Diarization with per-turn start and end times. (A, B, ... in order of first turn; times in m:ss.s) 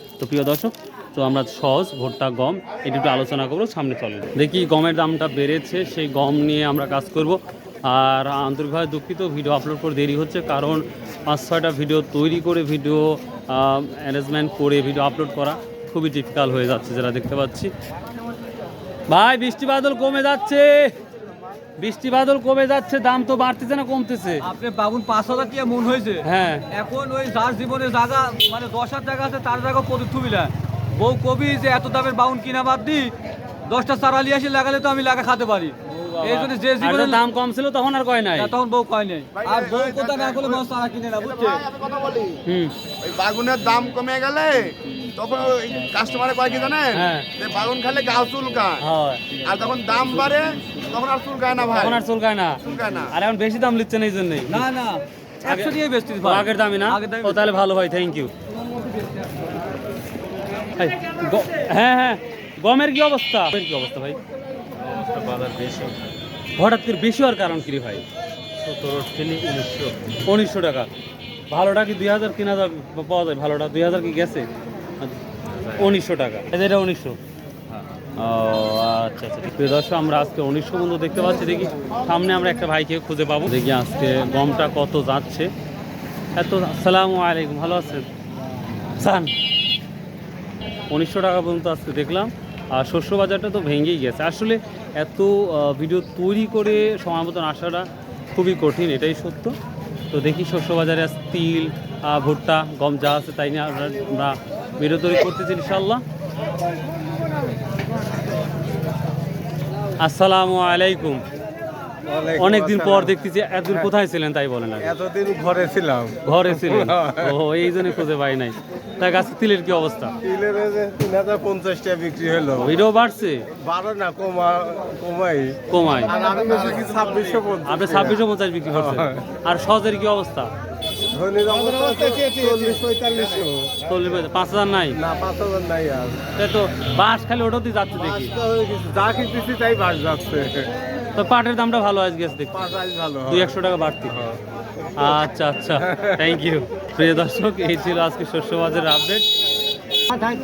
0:00.2-0:17.7 A
0:19.1-0:20.9 A
0:21.8-0:24.4 A
0:24.4-0:33.1 B
0:26.2-0:26.6 A
0:33.6-0:37.2 B
0:36.2-0:38.5 A
0:38.4-0:41.6 B
0:39.3-0:40.6 C
0:41.2-0:42.4 C
0:42.4-0:42.7 A
0:43.0-0:48.8 C
0:46.9-0:47.2 A
0:48.8-0:49.2 A
0:49.4-0:52.0 C
0:51.7-0:54.7 A
0:52.6-0:53.1 C
0:54.5-0:57.4 B
0:55.4-0:58.3 A
1:00.8-1:04.2 A
1:05.0-1:06.0 A
1:06.6-1:08.1 A
1:08.6-1:10.9 A
1:11.5-1:14.5 A
1:15.7-1:17.2 A
1:18.2-1:25.5 A
1:26.4-1:28.1 A
1:28.8-1:29.3 A
1:30.9-1:39.6 A
1:40.1-1:46.0 A
1:50.0-1:51.2 A
1:52.0-1:53.9 D
1:52.4-1:54.9 A
1:54.8-1:58.0 D
1:56.2-2:00.1 A
2:00.2-2:02.8 D
2:02.5-2:03.4 A
2:03.5-2:09.2 D
2:05.7-2:06.2 A
2:07.6-2:10.5 A
2:11.1-2:13.7 D
2:13.8-2:15.0 A
2:14.9-2:16.2 D
2:16.4-2:18.3 A
2:18.0-2:20.7 D
2:21.1-2:22.6 A
2:22.5-2:23.6 D
2:23.2-2:24.2 A
2:24.1-2:24.4 D
2:25.0-2:29.2 A
2:25.8-2:26.2 D